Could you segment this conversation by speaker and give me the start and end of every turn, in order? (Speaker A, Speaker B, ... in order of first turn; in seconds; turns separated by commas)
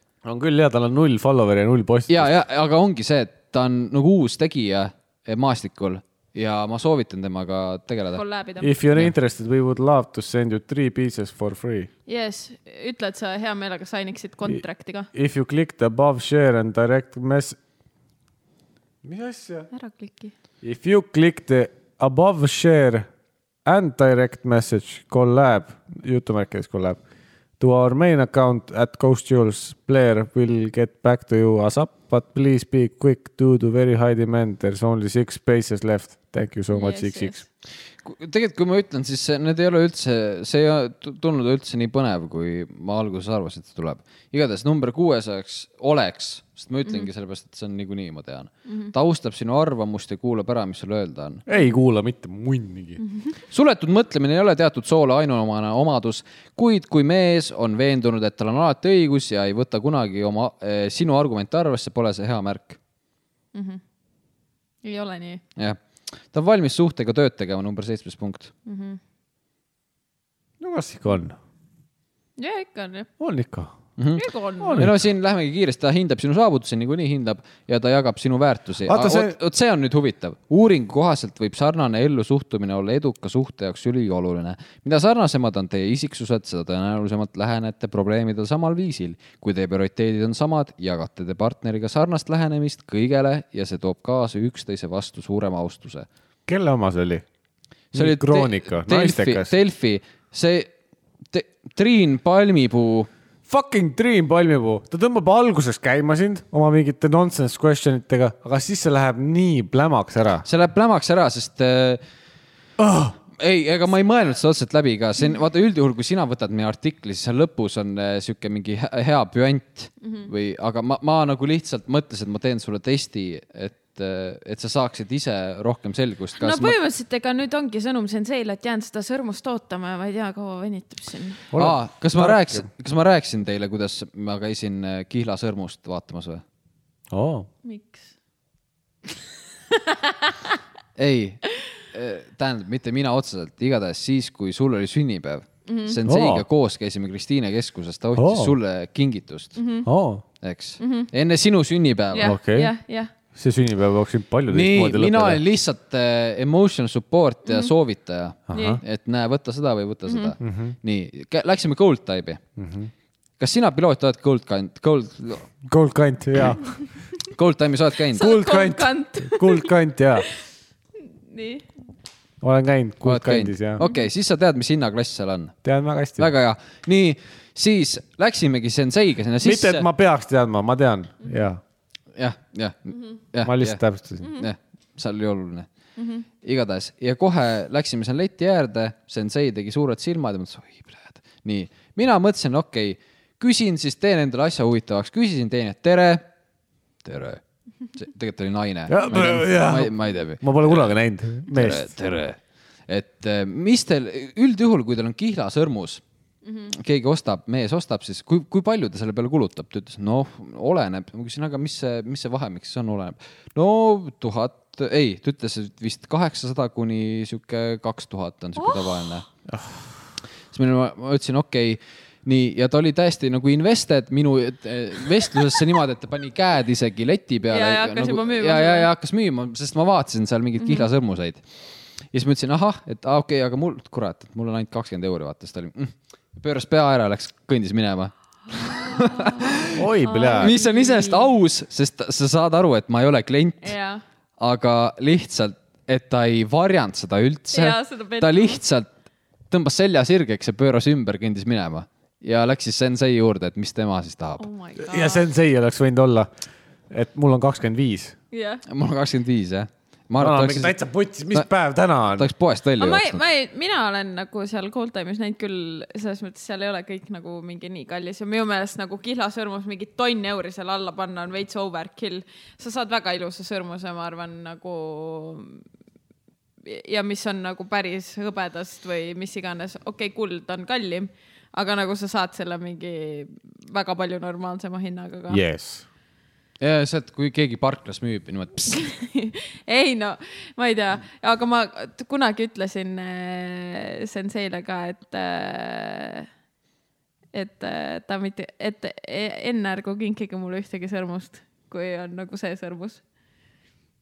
Speaker A: 0.2-2.3, Speaker B: 2.1-8.2, Speaker C: 8.1-8.8, Speaker A: 8.6-11.9, Speaker C: 12.1-15.1, Speaker A: 15.1-17.6, Speaker A: 19.0-19.7, Speaker C: 19.7-20.3, Speaker A: 20.6-23.1, Speaker A: 23.6-27.0, Speaker A: 27.6-37.4, Speaker C: 36.7-37.4, Speaker B: 38.0-51.4, Speaker C: 48.7-48.9, Speaker A: 51.5-53.0, Speaker C: 53.0-53.3, Speaker B: 53.5-62.8, Speaker C: 63.5-63.8, Speaker C: 64.8-65.4, Speaker B: 66.3-68.5, Speaker C: 68.7-69.0, Speaker A: 70.6-71.4, Speaker C: 72.4-73.1, Speaker A: 73.2-73.7, Speaker B: 74.0-74.2, Speaker C: 74.2-74.8, Speaker A: 74.6-75.0, Speaker B: 74.8-96.1, Speaker A: 78.9-79.3, Speaker A: 96.5-97.2, Speaker B: 97.9-100.7, Speaker A: 97.9-99.5, Speaker B: 101.3-103.1, Speaker A: 103.5-110.5, Speaker B: 110.5-112.0, Speaker A: 112.8-113.2, Speaker B: 113.4-126.8, Speaker C: 120.0-120.3, Speaker C: 126.4-131.4, Speaker A: 131.5-132.7, Speaker B: 131.6-136.4, Speaker A: 137.1-137.5, Speaker C: 137.6-138.1, Speaker C: 139.8-140.5, Speaker B: 141.0-149.6, Speaker C: 145.7-146.0, Speaker A: 146.1-146.4, Speaker A: 148.2-148.6, Speaker C: 149.6-149.9, Speaker A: 149.9-150.2, Speaker B: 150.4-152.3, Speaker C: 150.8-151.1, Speaker C: 152.1-153.1, Speaker A: 152.2-152.7, Speaker A: 153.3-155.4, Speaker B: 154.5-162.4, Speaker C: 157.5-157.7, Speaker A: 158.5-158.8, Speaker C: 158.5-158.8, Speaker C: 160.1-160.3, Speaker A: 160.4-160.8, Speaker A: 162.6-162.9, Speaker B: 163.4-165.5, Speaker A: 165.7-166.8, Speaker B: 167.3-168.3, Speaker A: 168.2-170.3, Speaker C: 168.2-170.4, Speaker C: 171.0-171.7, Speaker A: 172.4-173.8, Speaker B: 173.0-175.6, Speaker C: 173.8-174.1, Speaker A: 175.6-176.3, Speaker B: 176.2-179.9, Speaker A: 179.4-181.6, Speaker B: 182.2-183.8, Speaker A: 183.4-184.3, Speaker B: 184.3-185.7, Speaker C: 186.0-186.2, Speaker B: 186.4-196.2, Speaker B: 197.0-197.4, Speaker B: 197.9-201.0, Speaker A: 198.9-201.9, Speaker B: 201.5-206.0, Speaker C: 206.4-206.7, Speaker B: 206.7-219.3, Speaker C: 218.6-218.9, Speaker A: 219.5-219.8, Speaker B: 220.5-231.4, Speaker C: 227.5-228.9, Speaker C: 230.6-230.9, Speaker B: 232.1-239.8, Speaker C: 239.0-241.3, Speaker A: 239.7-240.5, Speaker B: 240.4-243.8, Speaker C: 243.6-244.0, Speaker B: 244.4-248.9, Speaker C: 247.5-248.6, Speaker B: 249.5-254.4, Speaker C: 254.4-255.3, Speaker A: 254.8-256.3, Speaker A: 256.9-258.1, Speaker C: 258.3-258.6, Speaker B: 258.7-260.8, Speaker A: 260.2-262.3, Speaker B: 262.1-263.2, Speaker C: 262.8-275.6, Speaker C: 276.6-285.4, Speaker A: 285.3-285.9, Speaker B: 286.6-288.9, Speaker C: 288.7-296.3, Speaker C: 297.3-303.0